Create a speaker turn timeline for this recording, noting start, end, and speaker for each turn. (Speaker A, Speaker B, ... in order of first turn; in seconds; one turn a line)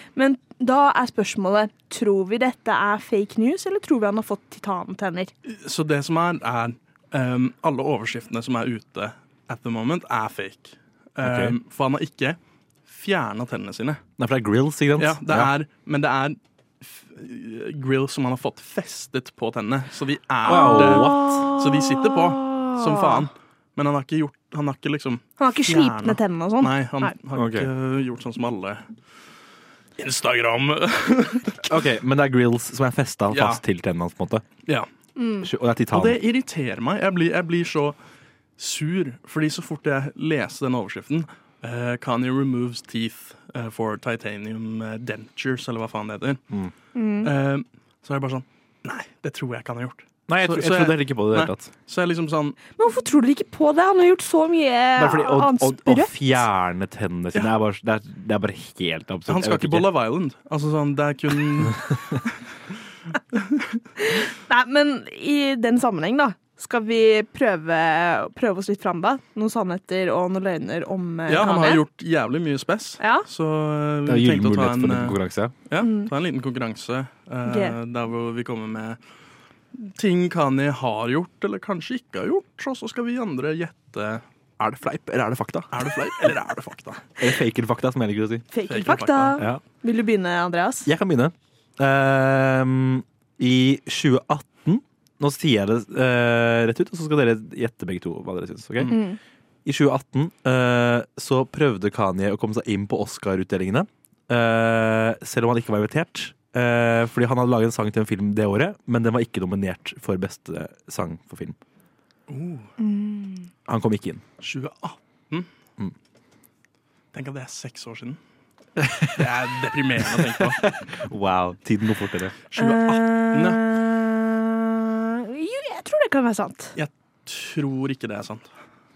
Speaker A: 0.2-5.3
Speaker B: 5.5-14.0
Speaker C: 11.2-11.6
Speaker C: 14.2-15.5
Speaker B: 15.0-28.8
Speaker C: 20.4-21.5
Speaker A: 20.5-23.3
Speaker A: 25.4-27.1
Speaker C: 27.3-27.7
Speaker B: 30.0-31.7
Speaker C: 31.6-34.5
Speaker B: 33.3-33.6
Speaker A: 35.2-35.5
Speaker C: 35.4-36.2
Speaker B: 35.9-38.0
Speaker B: 38.6-46.4
Speaker A: 47.0-47.3
Speaker B: 47.2-52.6
Speaker C: 50.3-51.7
Speaker A: 52.8-56.4
Speaker C: 55.0-59.9
Speaker B: 59.3-62.3
Speaker B: 63.4-63.6
Speaker A: 64.0-71.8
Speaker B: 71.3-79.0
Speaker A: 73.0-73.2
Speaker C: 74.1-75.5
Speaker A: 75.8-76.1
Speaker A: 77.5-77.8
Speaker B: 79.8-84.2
Speaker C: 84.6-86.3
Speaker B: 85.7-87.1
Speaker C: 87.2-88.5
Speaker A: 88.5-90.9
Speaker B: 88.7-89.4
Speaker C: 90.8-99.0
Speaker A: 98.9-99.2
Speaker C: 99.7-111.6
Speaker B: 112.3-112.7
Speaker A: 112.8-113.5
Speaker C: 113.7-114.2
Speaker B: 114.4-115.5
Speaker B: 117.1-118.2
Speaker C: 118.8-119.3
Speaker B: 119.2-120.7
Speaker C: 120.1-122.4
Speaker B: 122.5-123.6
Speaker A: 122.6-126.8
Speaker B: 126.8-128.5